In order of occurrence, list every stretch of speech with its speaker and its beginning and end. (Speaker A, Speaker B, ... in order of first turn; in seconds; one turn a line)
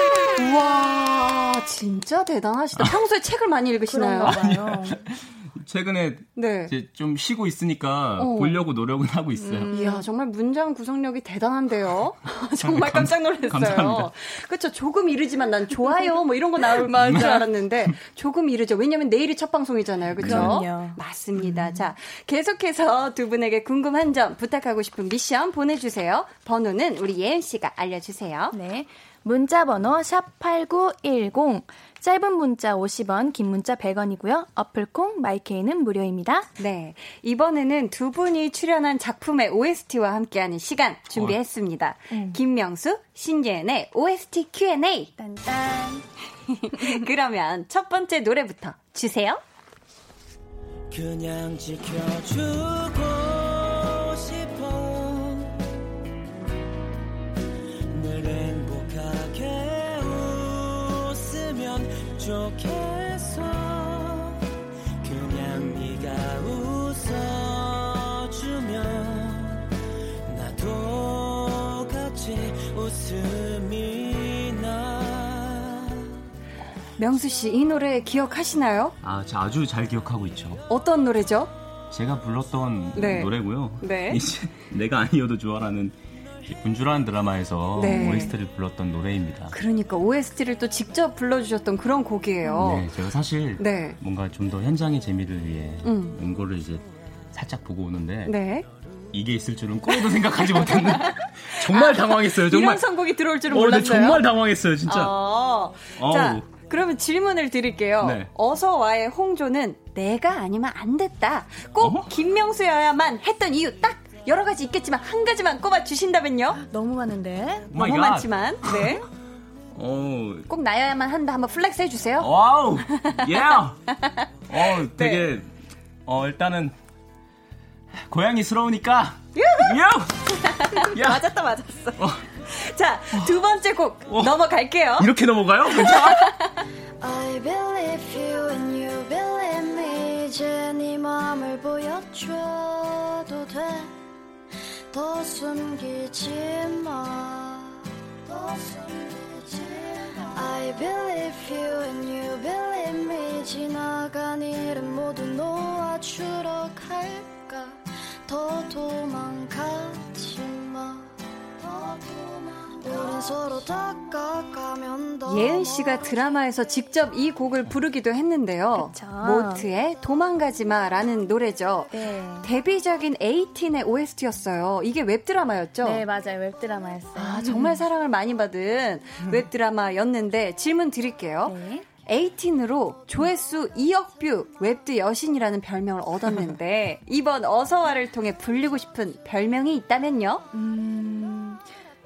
Speaker A: 0.4-4.4
Speaker B: 3.9-5.0
Speaker C: 4.2-9.7
Speaker A: 6.3-6.7
Speaker A: 8.2-8.6
Speaker B: 9.3-10.1
Speaker A: 9.7-28.5
Speaker C: 12.6-14.1
Speaker B: 16.8-17.5
Speaker C: 16.9-17.3
Speaker B: 20.2-21.9
Speaker C: 20.2-20.6
Speaker B: 28.5-36.5
Speaker A: 36.6-45.1
Speaker B: 42.1-42.4
Speaker B: 45.2-46.1
Speaker A: 46.4-49.4
Speaker B: 46.8-47.0
Speaker D: 50.9-55.6
Speaker D: 57.9-64.4
Speaker D: 65.0-69.7
Speaker D: 70.2-76.1
Speaker A: 77.0-79.0
Speaker C: 79.0-80.6
Speaker A: 80.7-81.5
Speaker C: 81.9-86.0
Speaker A: 82.9-84.2
Speaker C: 86.5-89.5
Speaker A: 87.7-88.3
Speaker A: 89.5-92.9
Speaker C: 92.5-98.4
Speaker A: 93.6-94.0
Speaker A: 95.8-96.2
Speaker A: 98.2-98.7
Speaker C: 99.1-102.9
Speaker A: 100.4-104.2
Speaker C: 103.5-105.2
Speaker A: 104.8-116.6
Speaker C: 106.0-106.5
Speaker C: 108.0-108.3
Speaker C: 111.8-112.1
Speaker B: 116.6-117.7
Speaker C: 117.7-119.0
Speaker A: 117.7-119.0
Speaker C: 119.7-120.5
Speaker A: 120.5-122.3
Speaker C: 122.2-123.8
Speaker A: 122.9-123.3
Speaker A: 123.9-125.3
Speaker C: 124.5-125.5
Speaker C: 126.0-126.8
Speaker C: 127.9-131.2
Speaker A: 129.3-129.8
Speaker A: 130.3-135.1
Speaker C: 132.0-132.3
Speaker C: 133.1-133.4
Speaker C: 134.1-134.3
Speaker C: 135.0-136.3
Speaker A: 135.7-136.6
Speaker E: 137.0-143.9
Speaker E: 144.9-166.3
Speaker A: 165.2-176.0
Speaker B: 168.7-169.7
Speaker B: 171.9-172.5
Speaker B: 175.8-177.8
Speaker A: 177.2-190.4
Speaker B: 181.4-181.8
Speaker B: 190.5-191.7